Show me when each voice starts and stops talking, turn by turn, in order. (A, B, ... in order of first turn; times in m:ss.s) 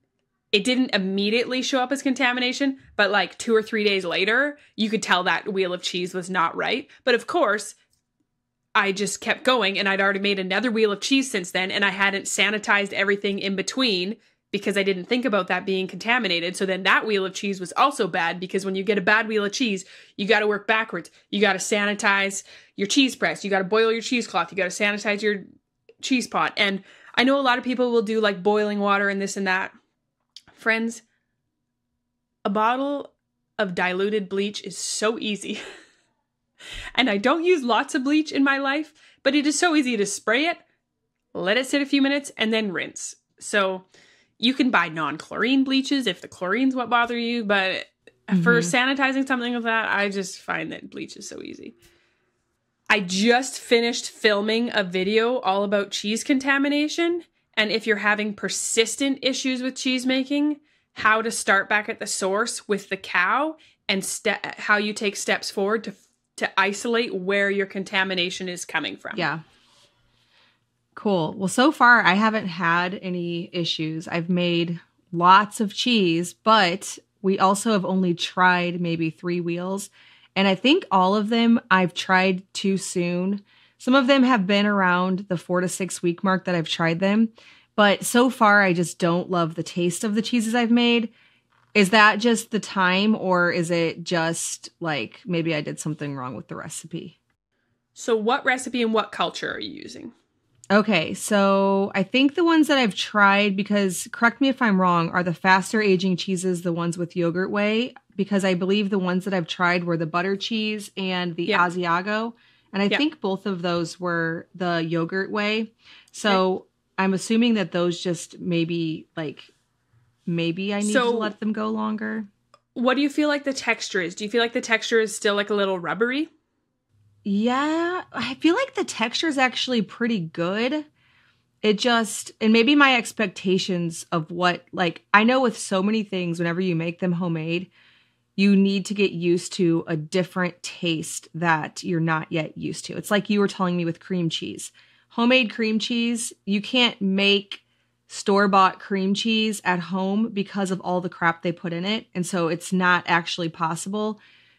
0:00.5-0:07.8 A
0:08.8-0:25.4 A
0:26.0-0:29.7 A
0:30.5-0:31.0 A
0:32.4-0:35.6 A
0:37.0-0:40.6 A
0:41.3-0:43.8 A
0:44.4-0:51.8 A
0:48.3-0:48.7 B
0:52.9-1:09.3 A
1:09.2-1:09.4 B
1:11.0-1:31.1 B
1:31.7-1:37.2 B
1:38.0-1:40.1 A
1:40.7-1:59.5 B
2:00.3-2:02.3 B
2:00.8-2:01.3 A
2:02.8-2:06.3 A
2:07.2-2:10.9 B
2:11.6-2:17.7 B
2:18.4-2:34.2 B